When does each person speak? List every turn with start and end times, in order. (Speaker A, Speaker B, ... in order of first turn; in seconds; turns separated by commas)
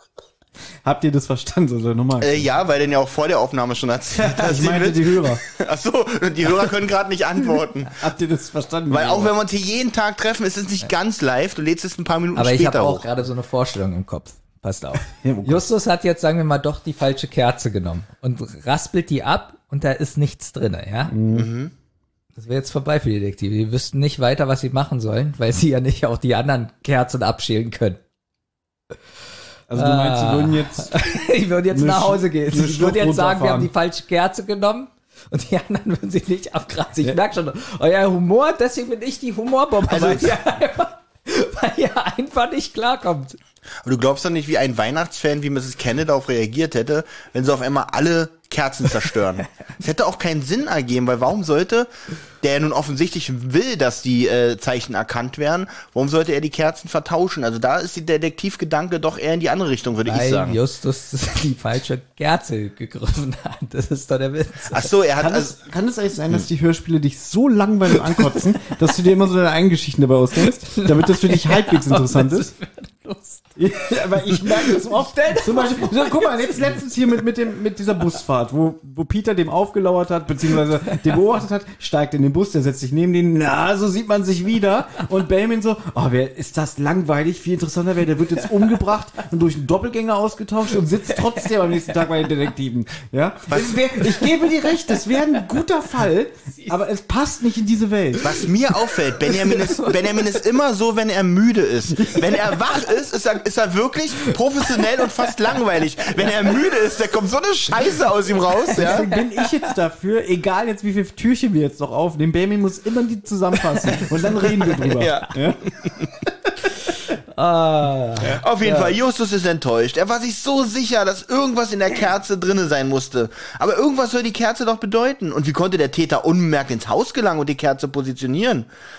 Speaker A: 0.8-2.5, Speaker B: 2.2-8.0, Speaker A: 4.1-5.4, Speaker A: 7.9-9.3, Speaker B: 8.9-13.0, Speaker C: 12.3-21.1, Speaker A: 15.1-15.7, Speaker A: 21.1-21.5, Speaker B: 21.3-21.7, Speaker C: 22.4-28.0, Speaker A: 29.7-31.1, Speaker C: 29.7-43.4, Speaker A: 31.7-33.7, Speaker B: 39.9-40.4, Speaker B: 43.8-51.9, Speaker B: 52.4-60.6, Speaker C: 60.0-64.9, Speaker B: 64.7-65.5, Speaker A: 65.2-72.5, Speaker C: 70.7-73.5, Speaker A: 73.6-98.4, Speaker C: 74.2-76.8, Speaker B: 93.5-94.0, Speaker B: 98.2-109.0, Speaker C: 99.3-100.0, Speaker A: 101.9-102.4, Speaker C: 104.7-105.3, Speaker C: 106.2-106.5, Speaker C: 108.7-109.5, Speaker A: 108.7-115.6, Speaker C: 113.8-114.5, Speaker B: 114.9-116.1, Speaker C: 117.3-118.9, Speaker B: 118.4-128.7